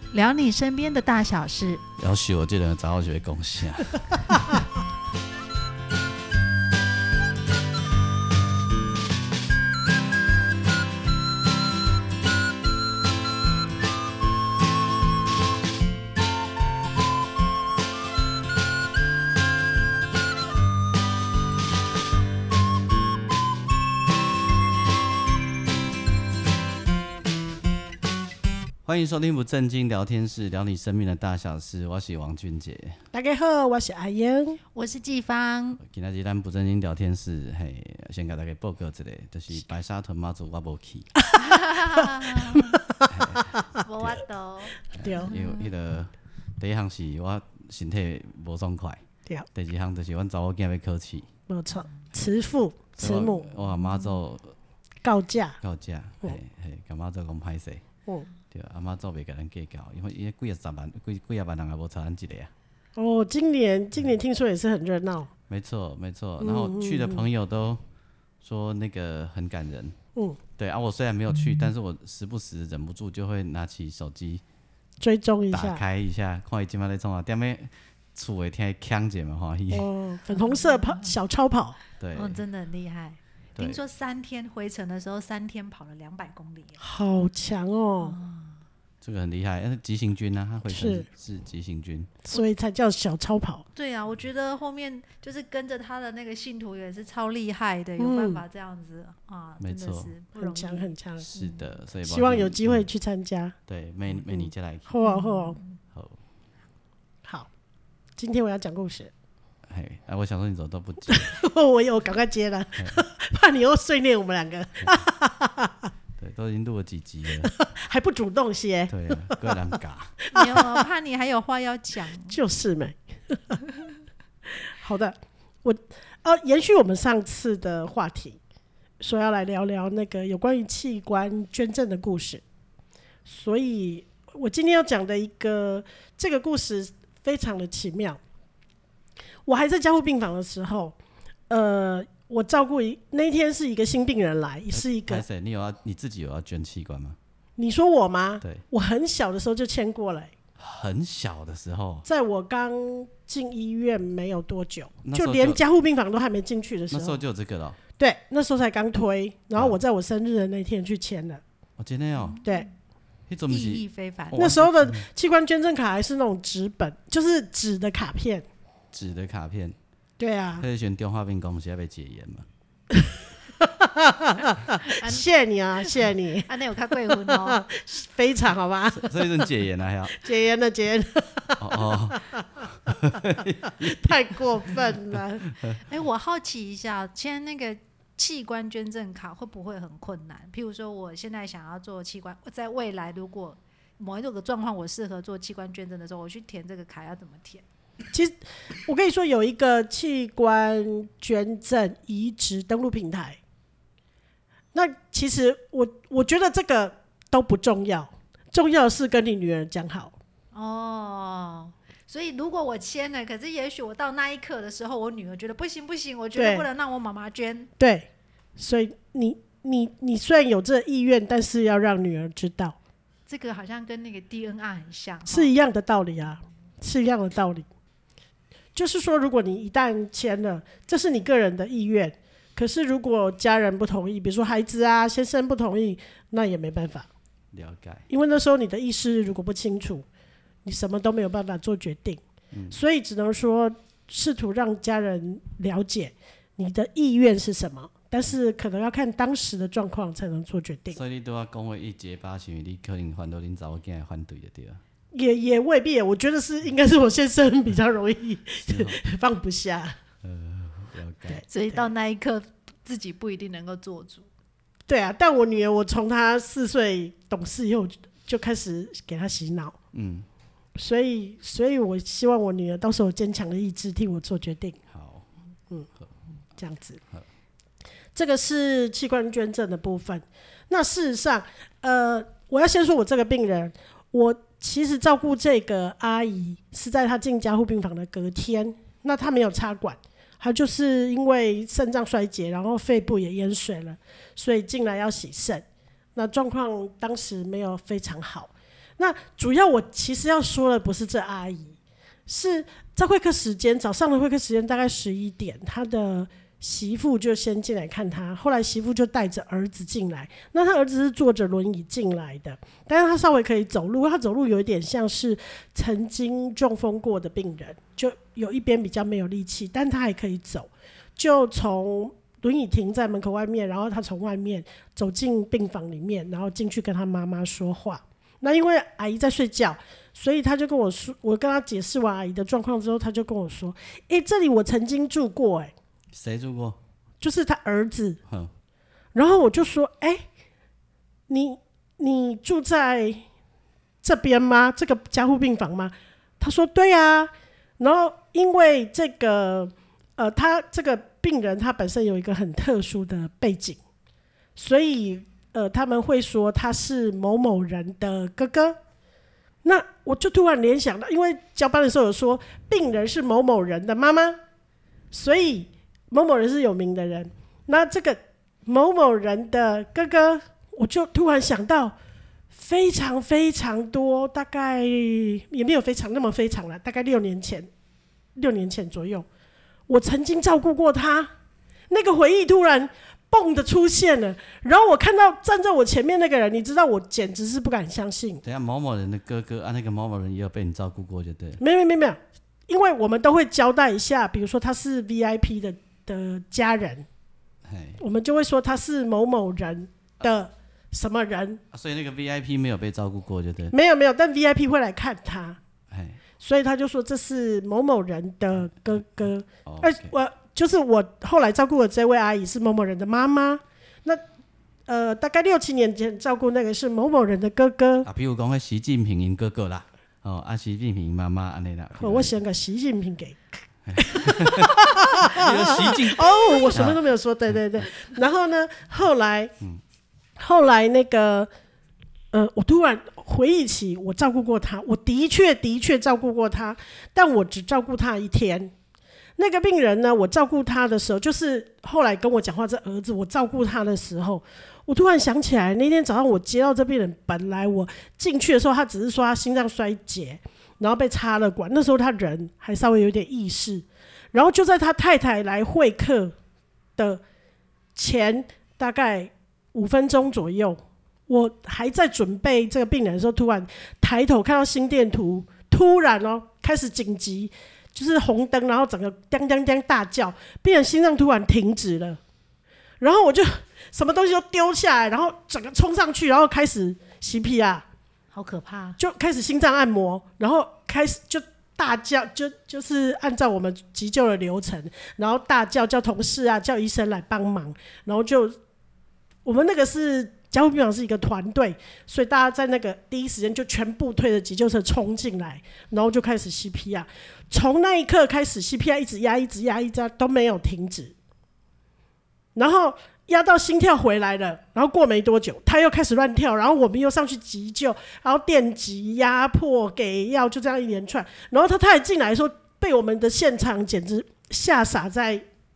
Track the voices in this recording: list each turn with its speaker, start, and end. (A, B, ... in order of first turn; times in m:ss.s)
0:00.1-0:01.8 A
0:02.0-0:04.6 B
0:28.8-0:33.0 B
0:33.1-0:34.6 C
0:34.7-0:35.8 A
0:35.8-0:41.1 B
0:41.2-0:43.8 C
0:41.4-0:42.8 A
0:43.1-0:44.2 B
0:43.8-0:45.6 A
0:44.9-0:49.0 B
0:45.0-0:45.3 C
0:49.5-0:51.3 B
0:51.5-0:53.5 C
0:53.0-0:54.5 B
0:53.8-0:54.1 A
0:55.0-0:55.6 C
0:55.6-0:57.8 B
0:58.5-1:02.5 B
1:03.0-1:05.3 C
1:05.5-1:07.8 B
1:06.4-1:07.2 C
1:08.4-1:09.9 B
1:10.6-1:14.4 B
1:15.0-1:15.8 C
1:15.5-1:19.9 B
1:19.7-1:21.8 C
1:20.4-1:21.1 A
1:22.0-1:22.4 B
1:22.1-1:26.8 A
1:26.8-1:28.2 C
1:28.0-1:28.6 A
1:29.0-1:32.1 B
1:30.7-1:31.1 C
1:32.2-1:33.6 C
1:33.8-1:41.7 A
1:38.0-1:38.4 C
1:39.6-1:40.1 B
1:40.3-1:41.2 C
1:41.2-1:42.9 B
1:42.0-1:43.5 C
1:43.7-1:44.9 B
1:44.3-1:45.6 C
1:45.0-1:45.8 A
1:45.9-1:46.2 B
1:48.2-1:49.1 C
1:49.7-1:51.4 B
1:51.1-1:55.9 C
1:56.2-1:57.5 B
1:57.4-1:59.4 C
1:58.9-2:00.2 B
2:00.3-2:00.8 C
2:00.3-2:02.4 A
2:02.3-2:03.6 C
2:04.7-2:08.4 C
2:09.0-2:12.4 C
2:13.2-2:18.2 C
2:19.4-2:20.9 C
2:21.5-2:25.2 C
2:24.7-2:27.2 B
2:27.6-2:30.3 C
2:30.6-2:32.0 B
2:32.0-2:37.2 C
2:35.0-2:35.6 B
2:36.9-2:37.8 B
2:38.0-2:41.4 C
2:41.8-2:42.4 B
2:42.2-2:42.6 A
2:43.3-2:45.0 B
2:43.5-2:44.5 A
2:44.4-2:48.4 C
2:48.9-2:49.8 B
2:50.2-2:50.6 C
2:50.6-2:52.4 B
2:53.6-2:56.5 C
2:55.0-2:55.2 A
2:56.5-2:57.6 A
2:57.1-2:59.4 C
2:58.9-3:00.2 B
3:00.1-3:02.6 C
3:01.6-3:05.8 B
3:03.8-3:05.4 C
3:05.7-3:17.6 A
3:18.8-3:23.4 C
3:24.7-3:30.1 C
3:30.5-3:37.7 A
3:36.3-3:36.6 C
3:37.8-3:42.8 C
3:43.3-3:45.5 A
3:45.3-3:47.6 C
3:48.7-3:57.1 C
3:57.5-3:58.0 B
3:58.1-4:00.0 C
4:00.6-4:11.0 C
4:02.5-4:02.8 B
4:10.9-4:14.8 B
4:15.1-4:20.0 C
4:18.7-4:19.0 B
4:20.2-4:21.4 B
4:21.3-4:21.9 C
4:21.5-4:24.2 A
4:24.9-4:29.8 C
4:29.9-4:30.3 B
4:30.8-4:34.8 C
4:34.9-4:35.3 B
4:36.6-4:37.0 C
4:38.1-4:55.6 C
4:56.2-5:35.7 C
5:36.1-5:36.8 B
5:37.2-5:38.2 C
5:38.3-5:38.5 B
5:39.1-5:40.2 C
5:41.3-5:43.2 C
5:44.0-5:53.8 C
5:54.6-5:58.8 C
5:59.6-6:04.4 C
6:05.1-6:11.9 C
6:12.5-6:17.7 C
6:18.4-6:19.2 C
6:19.9-6:21.3 C
6:21.9-6:28.4 C
6:28.4-6:31.6 B
6:31.6-6:37.0 C
6:37.6-6:38.0 B
6:38.0-6:41.6 C
6:41.7-6:43.7 B
6:43.7-6:45.6 C
6:45.9-6:46.2 B
6:46.4-6:54.2 C
6:49.6-6:50.1 B
6:54.9-6:58.1 C
6:58.0-7:02.3 B
7:02.0-7:03.4 C
7:03.9-7:07.0 B
7:04.0-7:09.5 C
7:10.4-7:11.5 C
7:12.3-7:18.7 C
7:19.4-7:36.3 C
7:38.0-7:52.2 C
7:53.0-7:57.8 C
7:58.3-7:59.0 A
7:59.0-8:08.5 C
8:09.4-8:21.1 C
8:22.5-8:35.4 C